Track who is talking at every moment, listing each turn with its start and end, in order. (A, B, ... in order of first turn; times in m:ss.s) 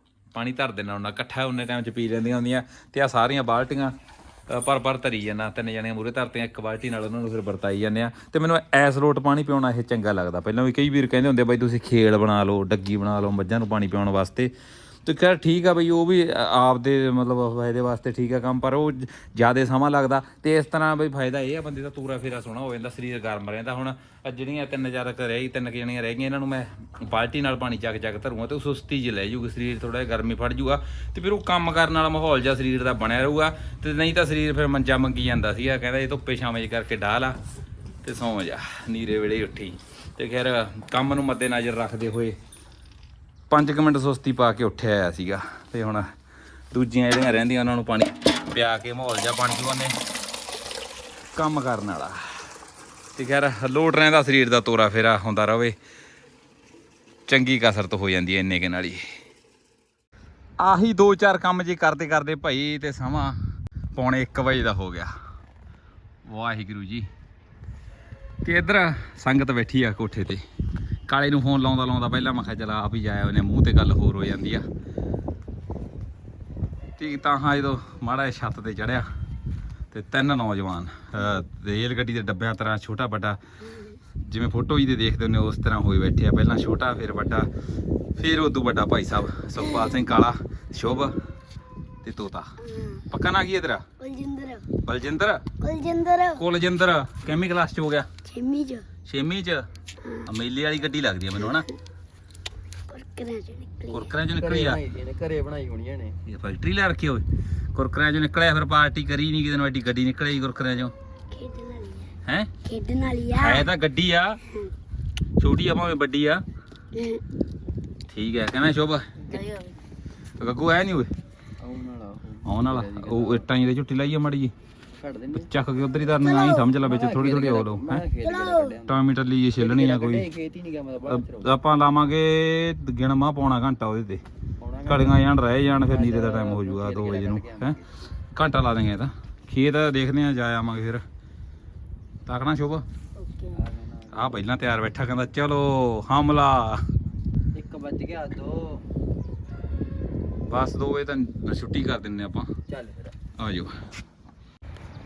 0:00.3-0:03.9 A
0:04.5-0:14.5 A
0:15.0-0:37.4 A
0:38.0-0:42.4 A
0:43.5-0:46.1 A
0:46.7-0:49.9 A
0:51.4-0:52.2 A
0:53.2-0:55.8 A
0:57.3-0:59.0 A
1:00.6-1:03.4 A
1:03.9-1:05.1 A
1:06.2-1:07.1 A
1:08.4-1:10.4 A
1:11.1-1:14.6 A
1:17.0-1:19.1 A
1:19.9-1:23.4 A
1:23.6-1:24.0 B
1:24.2-1:27.5 A
1:28.2-1:31.2 A
1:29.6-1:29.9 B
1:32.0-1:32.5 A
1:32.6-1:33.0 B
1:33.1-1:33.8 A
1:34.0-1:34.7 B
1:34.8-1:35.4 A
1:35.6-1:36.4 B
1:36.4-1:38.1 A
1:38.2-1:38.9 B
1:39.0-1:39.6 A
1:40.2-1:41.6 A
1:41.4-1:41.6 B
1:42.9-1:44.1 B
1:43.9-1:44.8 A
1:44.3-1:46.2 C
1:46.2-1:50.9 A
1:51.3-1:52.1 B
1:52.2-1:52.5 A
1:52.6-1:53.7 B
1:53.4-1:54.4 A
1:55.4-1:56.4 A
1:56.9-1:57.2 B
1:58.1-1:59.1 A
1:59.3-1:59.7 B
2:00.4-2:01.1 A
2:01.6-2:03.5 C
2:02.4-2:04.5 A
2:05.0-2:05.5 C
2:05.3-2:08.0 A
2:06.2-2:06.7 B
2:06.8-2:09.0 C
2:08.2-2:08.8 B
2:08.9-2:10.3 A
2:09.6-2:11.5 C
2:11.0-2:14.2 A
2:14.6-2:18.0 C
2:14.8-2:17.8 A
2:18.3-2:21.0 A
2:22.2-2:22.8 A
2:23.2-2:23.6 B
2:23.5-2:24.4 C
2:24.1-2:26.8 A
2:27.5-2:28.8 C
2:30.5-2:32.5 A
2:32.7-2:33.2 C
2:33.4-2:33.7 A